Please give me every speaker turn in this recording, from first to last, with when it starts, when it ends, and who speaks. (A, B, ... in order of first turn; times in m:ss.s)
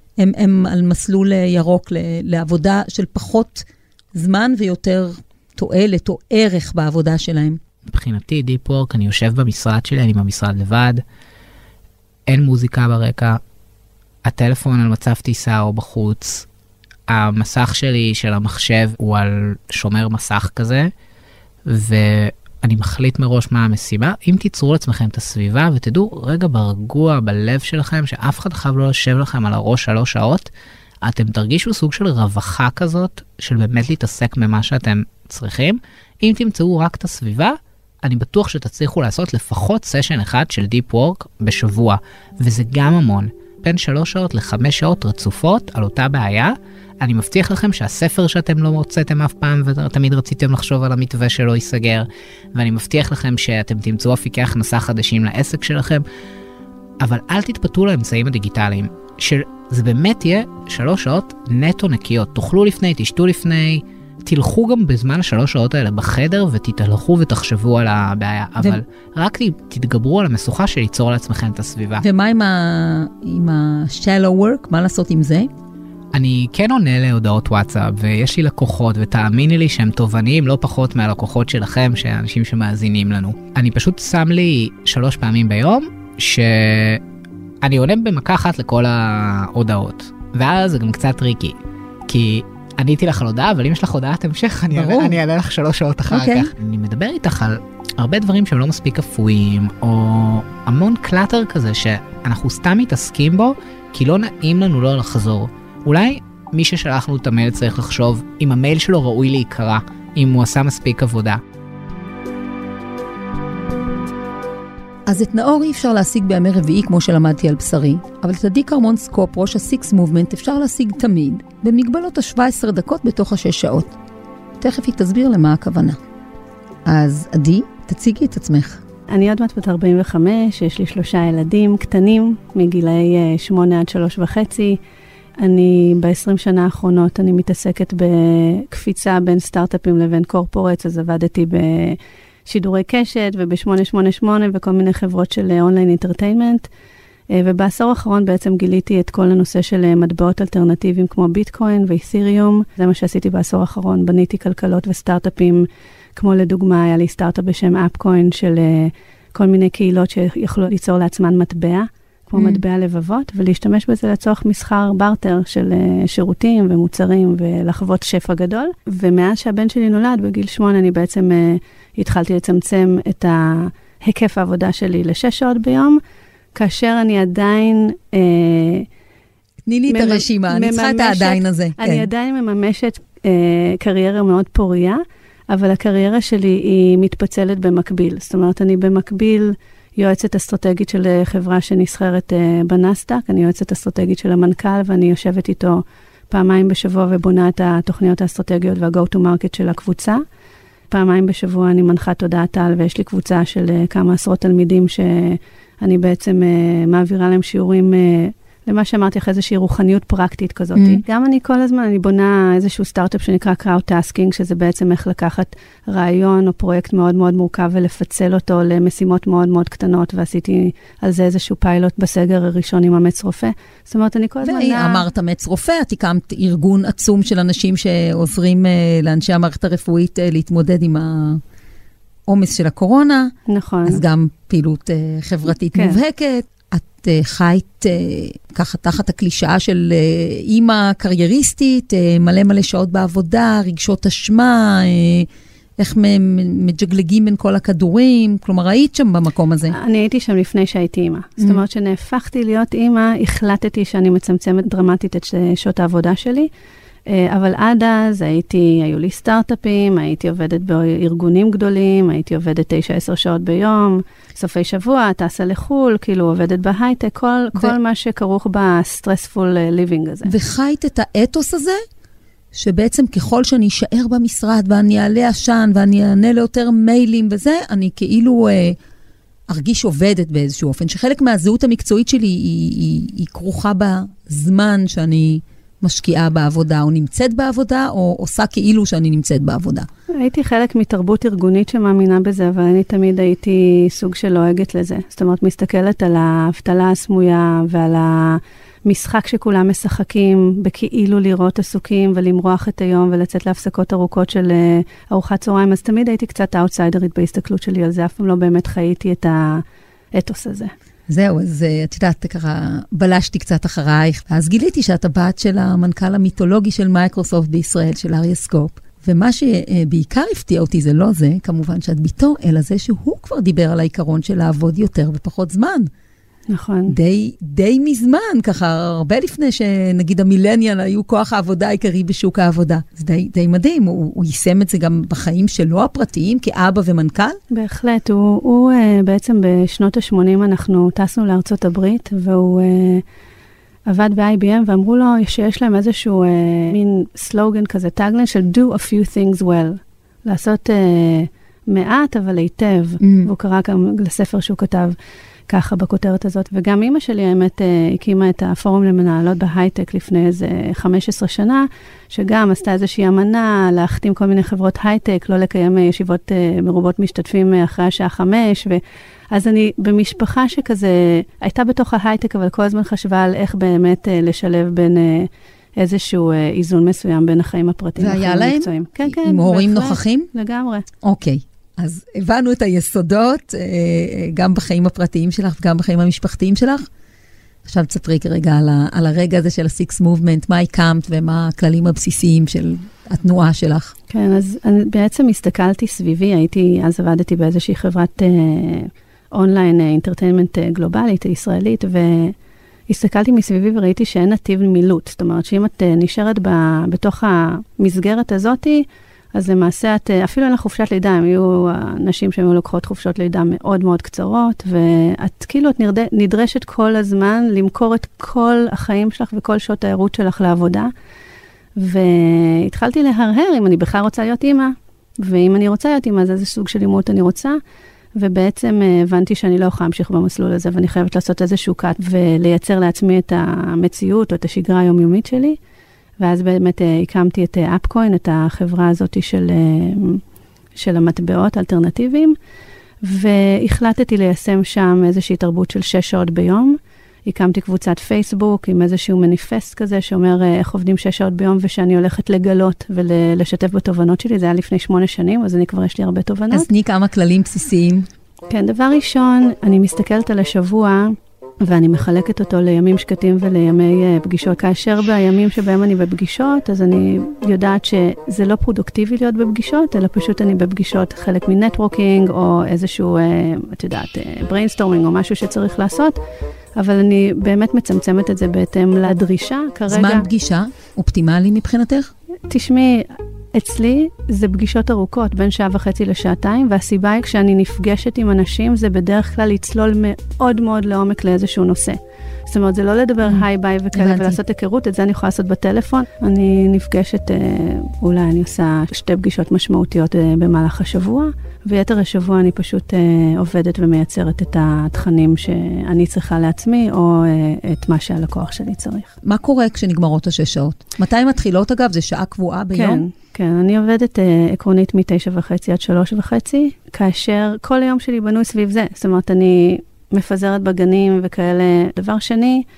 0:00.2-0:07.6 A
0:07.9-0:11.0 B
0:12.3-0:13.4 B
0:14.2-0:16.5 B
0:17.1-0:20.9 B
0:21.7-0:30.5 B
0:31.0-0:56.0 B
0:57.0-1:12.0 B
1:12.0-1:15.5 A
1:16.1-1:27.0 B
1:27.6-1:31.6 B
1:32.1-1:51.4 B
1:34.7-1:35.2 A
1:36.1-1:36.5 A
1:55.1-2:03.9 A
2:04.6-2:06.0 A
2:06.9-2:08.8 A
2:09.1-2:14.8 C
2:15.4-2:26.7 C
2:27.3-2:56.0 C
2:42.4-2:42.6 A
2:56.6-2:58.9 C
2:59.7-3:02.1 A
2:59.9-3:20.2 C
3:20.9-3:45.0 C
3:30.8-3:31.0 A
3:44.4-3:51.4 A
3:52.3-3:53.3 A
3:53.5-3:54.0 C
3:53.9-4:05.3 A
3:55.7-3:56.0 C
4:05.8-4:09.8 A
4:09.7-4:16.5 C
4:17.1-4:30.3 C
4:30.2-4:31.8 A
4:32.5-4:38.8 A
4:39.5-4:49.9 A
4:50.1-5:10.7 C
5:11.1-5:25.9 A
5:26.5-5:27.0 C
5:26.9-5:37.4 A
5:37.5-5:43.0 C
5:43.9-5:54.9 C
5:53.0-5:53.3 A
5:55.5-6:20.9 C
6:18.0-6:20.3 A
6:21.0-6:26.9 A
6:27.7-6:33.9 A
6:34.1-6:42.4 C
6:42.9-7:00.9 C
7:01.8-7:07.6 C
7:08.2-7:15.6 C
7:16.2-7:20.2 C
7:20.8-7:22.4 C
7:23.0-7:36.7 C
7:36.5-7:38.1 A
7:38.5-7:56.2 C
7:56.8-8:00.3 C
7:59.9-8:02.1 A
8:02.5-8:29.1 C
8:13.2-8:14.4 A
8:29.2-8:33.0 A
8:32.8-8:42.6 C